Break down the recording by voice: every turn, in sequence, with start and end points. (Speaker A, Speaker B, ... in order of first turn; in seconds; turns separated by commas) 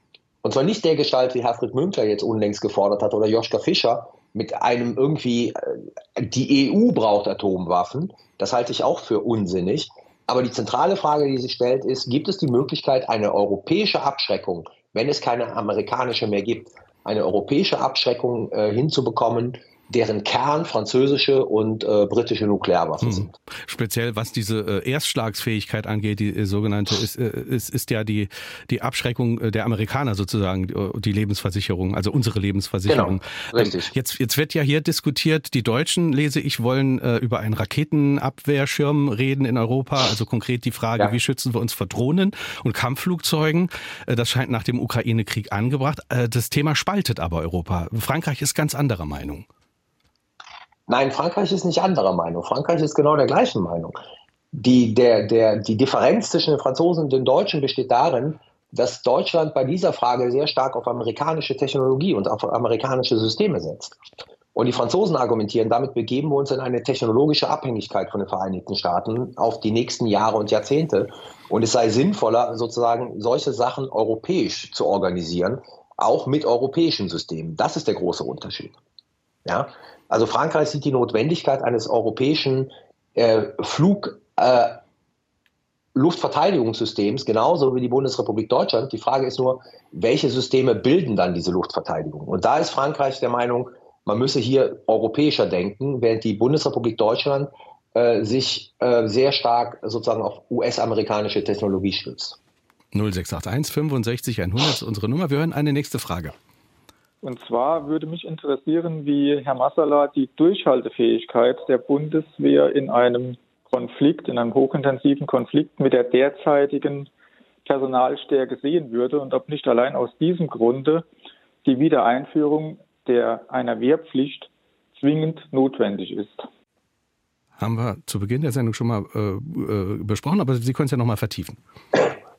Speaker A: 0.4-23.3, Speaker B: 23.0-49.5, Speaker A: 32.9-33.9, Speaker A: 50.9-54.0, Speaker A: 54.5-64.0, Speaker A: 64.5-78.8, Speaker A: 79.5-84.8, Speaker A: 85.9-102.4, Speaker B: 102.9-106.3, Speaker C: 107.2-117.1, Speaker C: 117.6-121.0, Speaker C: 121.6-126.5, Speaker B: 127.6-131.6